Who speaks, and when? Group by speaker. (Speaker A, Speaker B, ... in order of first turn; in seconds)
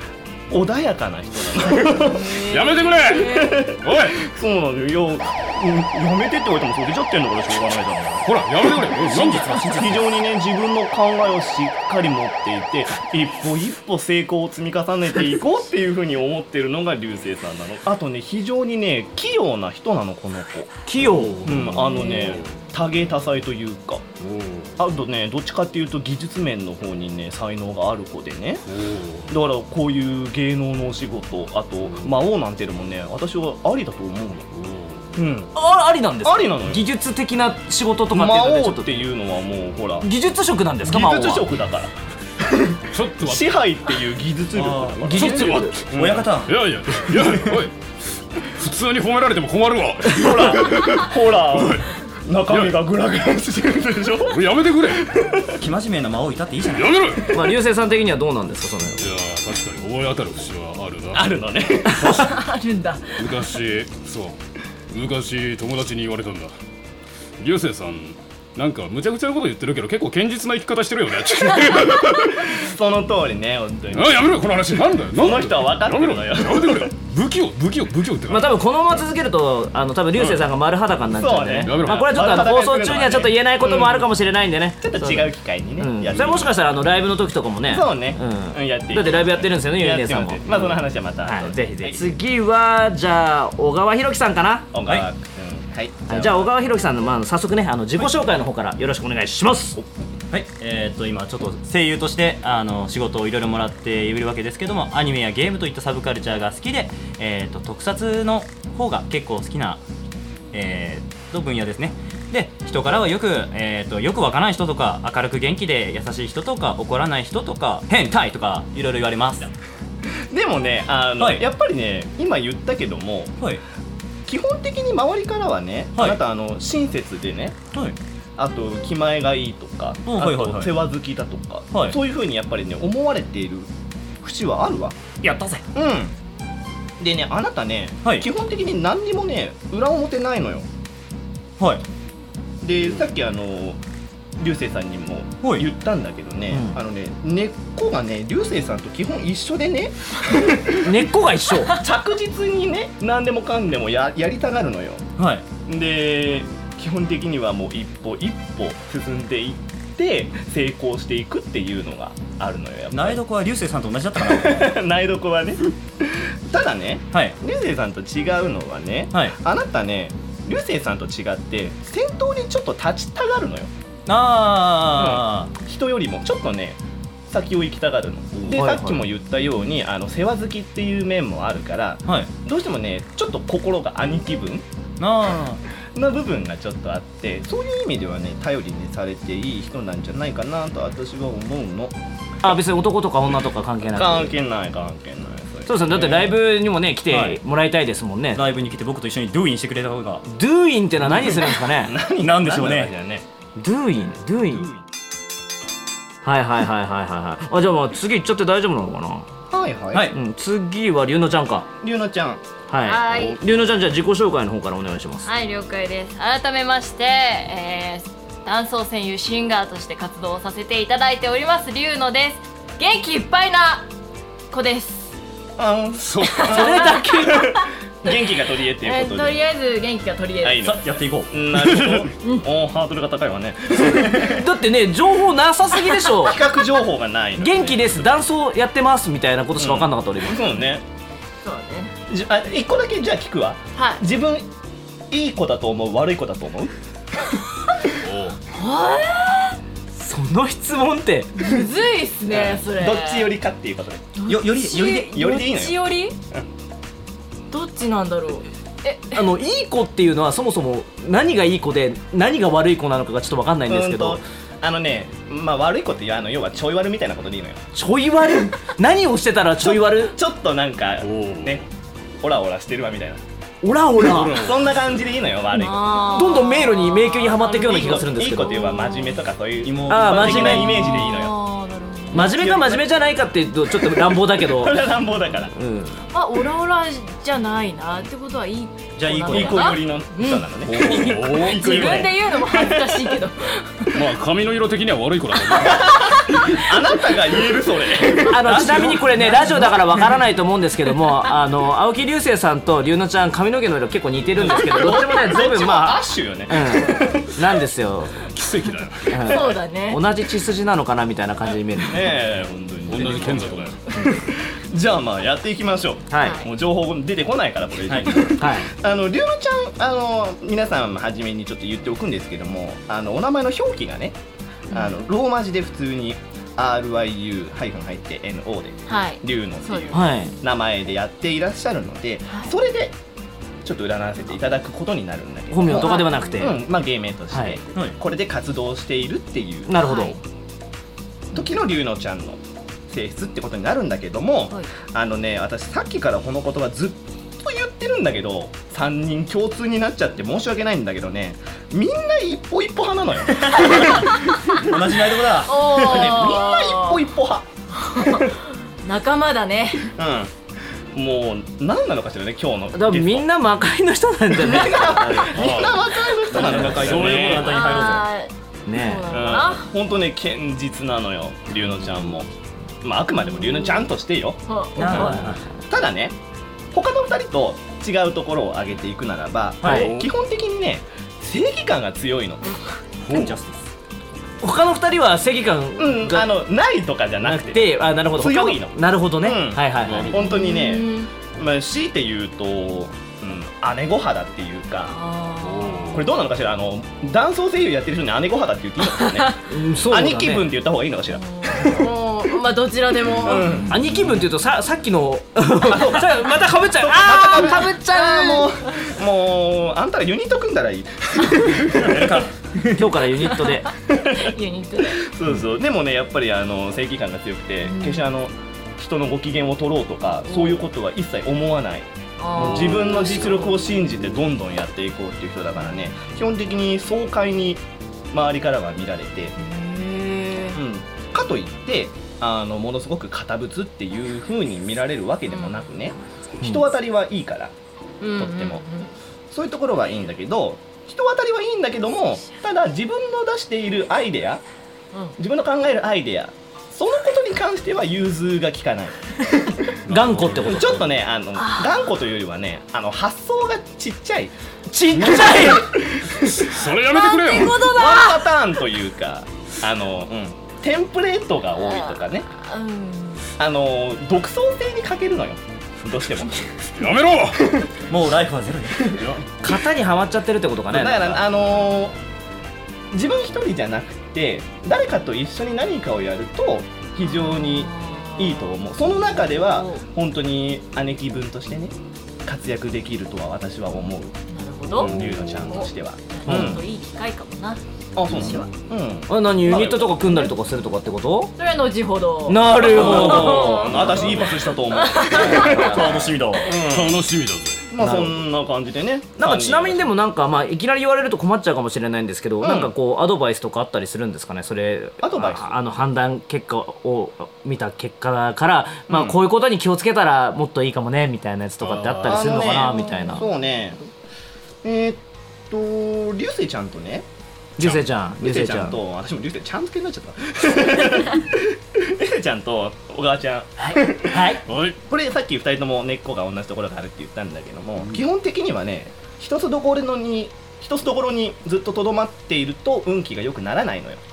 Speaker A: 0.5-2.4, 3.2-8.7, 9.7-20.7, 21.4-24.1, 24.8-28.6, 29.3-34.5, 35.1-35.5, 36.2-36.8, 38.1-40.1, 40.9-46.4, 50.0-55.6, 61.1-62.3, 72.0-74.3, 75.1-76.9, 81.1-84.1, 84.8-86.5, 87.7-92.1, 94.7-96.5, 120.3-123.4, 124.2-127.6, 128.4-133.7, 134.2-135.0, 135.7-136.2, 137.0-140.7, 142.6-143.8, 144.4-151.1, 151.7-155.0, 155.7-163.2, 164.1-173.7, 174.9-184.7, 185.9-191.9, 193.9-196.3, 201.0-203.2, 209.5-210.1, 211.8-212.4, 225.6-229.4, 230.4-234.4, 236.2-238.0, 239.6-240.8, 242.1-244.5, 245.1-246.7, 252.3-254.1, 254.8-256.4, 263.7-267.6, 269.6-271.6, 272.2-273.2, 274.3-276.1, 277.5-281.4, 282.1-282.9, 284.0-285.5, 289.3-293.2, 295.5-299.7, 304.3-307.5, 311.8-324.2, 324.7-332.9, 333.6-339.9, 341.3-358.3, 359.9-360.3, 360.9-363.3, 364.3-367.6, 369.1-372.3, 372.8-376.2, 376.7-382.6, 385.8-394.9, 395.9-401.8, 403.1-403.7, 405.6-412.3, 413.9-429.3, 430.5-437.5, 438.2-438.6, 439.3-444.4, 445.2-449.6, 450.4-454.3, 457.5-462.3, 463.4-466.7, 470.7-472.0, 472.9-481.7, 482.2-484.1, 484.7-486.6, 487.9-490.3, 492.5-497.0, 497.7-499.9, 502.4-502.7, 505.0-505.6, 508.9-509.2, 512.0-513.8, 514.6-517.1, 517.6-524.3, 524.9-534.0
Speaker B: 1.9-3.6, 62.1-63.2, 212.8-213.4, 215.2-223.9, 224.5-225.1, 227.3-228.3, 228.8-230.7, 241.4-241.9, 243.7-244.0, 248.5-249.6, 251.4-253.3, 254.2-256.1, 257.5-259.2, 275.5-279.2, 280.6-282.3, 286.1-293.9, 309.3-310.0, 316.2-316.5, 324.7-324.9, 328.9-330.0, 332.3-332.5, 335.7-336.5, 339.8-340.2, 355.4-357.0, 357.7-359.9, 367.1-369.7, 373.4-373.8, 374.5-375.3, 390.1-391.1, 394.9-396.1, 401.1-403.6, 407.6-408.7, 413.9-415.1, 417.6-418.1, 420.3-420.6, 422.2-423.7, 429.4-430.6, 435.3-435.7, 438.0-438.9, 451.4-451.8, 456.9-458.4, 461.6-463.2, 477.0-478.5, 479.2-479.8, 484.3-484.9, 485.5-488.5, 491.4-495.7, 512.7-513.3
Speaker C: 2.5-4.2, 8.2-9.7, 21.0-22.5, 24.2-24.7, 28.7-29.3, 34.5-35.1, 42.9-43.5, 45.0-47.8, 48.4-51.9, 52.5-52.8, 54.3-55.1, 56.7-57.3, 59.0-61.3, 62.0-62.3, 63.1-64.4, 64.9-66.5, 67.4-72.4, 73.9-78.6, 80.2-80.5, 81.6-82.3, 226.0-226.6, 248.0-248.4, 271.0-271.6, 274.0-274.7, 290.8-291.6, 293.9-296.2, 308.3-309.2, 312.9-313.8, 365.4-365.8, 366.7-367.4, 389.9-390.1, 395.4-396.1, 422.4-422.6, 449.9-450.8, 454.9-455.4, 456.2-457.6, 466.7-467.5, 484.8-485.5, 496.6-497.6, 511.6-512.4, 524.5-524.8
Speaker D: 9.0-10.1, 44.6-44.9, 45.9-46.6, 55.5-57.1, 100.3-109.8, 110.5-119.5, 121.2-121.4, 130.1-130.8, 135.2-135.6, 155.2-155.4, 162.9-164.7, 174.1-175.5, 185.0-185.6, 197.1-197.4, 198.3-200.2, 202.2-202.9, 230.6-231.4, 254.3-255.1, 279.6-281.0, 289.0-289.8, 317.9-318.2, 353.6-353.9, 354.6-356.1, 366.3-368.1, 374.8-375.4, 379.6-380.1, 383.0-383.7, 411.7-412.7, 467.9-469.0, 493.7-494.2, 495.1-496.6
Speaker E: 20.9-21.8, 35.5-39.0, 40.0-41.5, 45.1-45.8, 57.3-59.0, 78.3-94.7, 96.1-99.8, 146.5-146.8, 150.8-151.8, 178.5-179.0, 192.4-194.3, 195.7-198.4, 200.2-202.0, 203.6-204.7, 206.2-209.3, 210.1-211.7, 212.7-215.3, 226.4-227.5, 234.2-236.4, 237.4-240.4, 249.9-251.5, 259.1-264.2, 267.7-270.1, 273.6-274.5, 276.1-278.7, 279.9-280.9, 282.1-284.9, 285.5-286.0, 298.2-308.2, 309.1-312.2, 316.1-316.4, 318.4-318.7, 329.9-330.3, 335.5-336.6, 337.3-337.6, 339.7-340.2, 362.7-365.4, 368.7-369.2, 379.6-379.9, 384.4-386.4, 387.2-390.2, 399.5-400.5, 403.7-408.3, 412.7-413.7, 449.9-450.8, 454.7-455.7, 469.4-471.2, 486.2-486.5, 489.1-491.3, 492.2-493.8, 497.8-498.2, 499.2-513.2, 517.6-518.8, 523.7-524.4